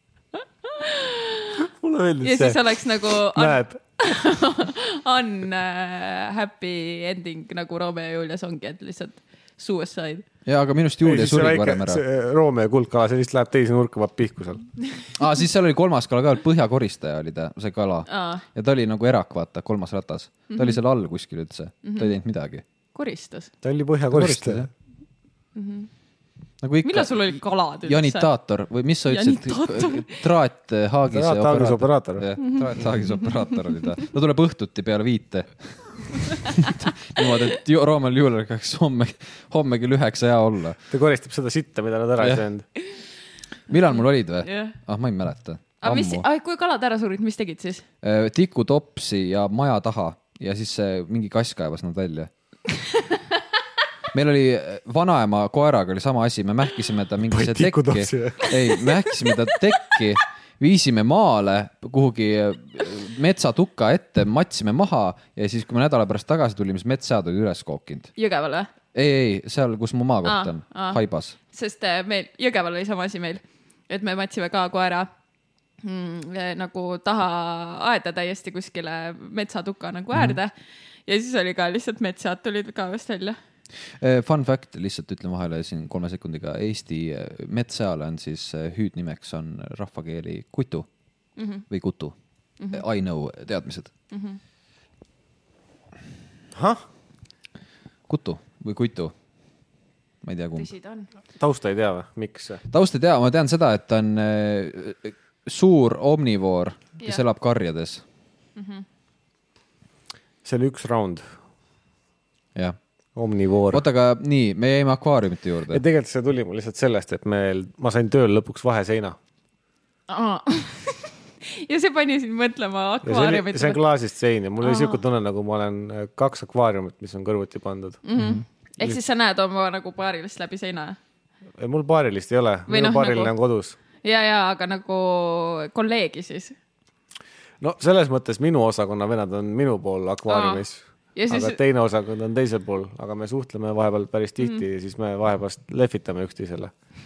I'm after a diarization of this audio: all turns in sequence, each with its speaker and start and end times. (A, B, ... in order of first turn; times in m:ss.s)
0:00.6-0:01.6 A
0:01.6-0:02.6 B
0:02.2-0:10.2 A
0:03.3-0:03.8 B
0:10.4-0:12.0 C
0:11.0-0:14.6 B
0:15.2-0:22.6 C
0:18.1-0:18.4 A
0:20.5-0:20.8 A
0:21.8-0:22.1 A
0:22.9-0:23.5 A
0:23.6-0:24.7 B
0:24.1-0:24.7 C
0:25.5-0:25.9 A
0:26.6-0:40.8 C
0:26.8-0:28.3 A
0:29.1-0:30.2 A
0:31.1-0:32.2 B
0:32.4-0:33.8 A
0:40.9-0:42.6 B
0:42.2-0:42.4 C
0:43.7-0:46.2 C
0:44.4-0:44.8 A
0:45.8-0:47.8 A
0:48.0-0:52.3 C
0:54.1-1:08.1 C
0:57.3-0:58.5 B
1:08.2-1:08.7 A
1:08.9-1:11.3 C
1:10.2-1:11.0 A
1:11.5-1:15.1 A
1:15.8-1:20.5 A
1:21.0-1:23.4 A
1:24.0-1:30.9 C
1:31.4-1:31.6 A
1:31.7-1:32.1 C
1:32.7-1:33.9 C
1:34.1-1:34.4 A
1:36.5-1:36.8 B
1:38.1-1:39.1 C
1:40.2-1:40.7 C
1:40.6-1:41.1 A
1:41.4-1:42.6 B
1:42.7-1:48.0 C
1:48.6-1:48.8 A
1:50.4-1:51.2 B
1:53.2-1:53.8 B
1:53.7-1:55.8 C
1:55.7-1:59.2 B
2:00.1-2:03.8 A
2:03.0-2:08.0 B
2:04.6-2:05.0 A
2:08.0-2:11.0 A
2:08.1-2:08.4 C
2:11.6-2:13.8 B
2:12.7-2:13.3 A
2:14.0-2:16.6 A
2:17.6-2:26.7 B
2:20.3-2:20.6 A
2:21.2-2:21.6 A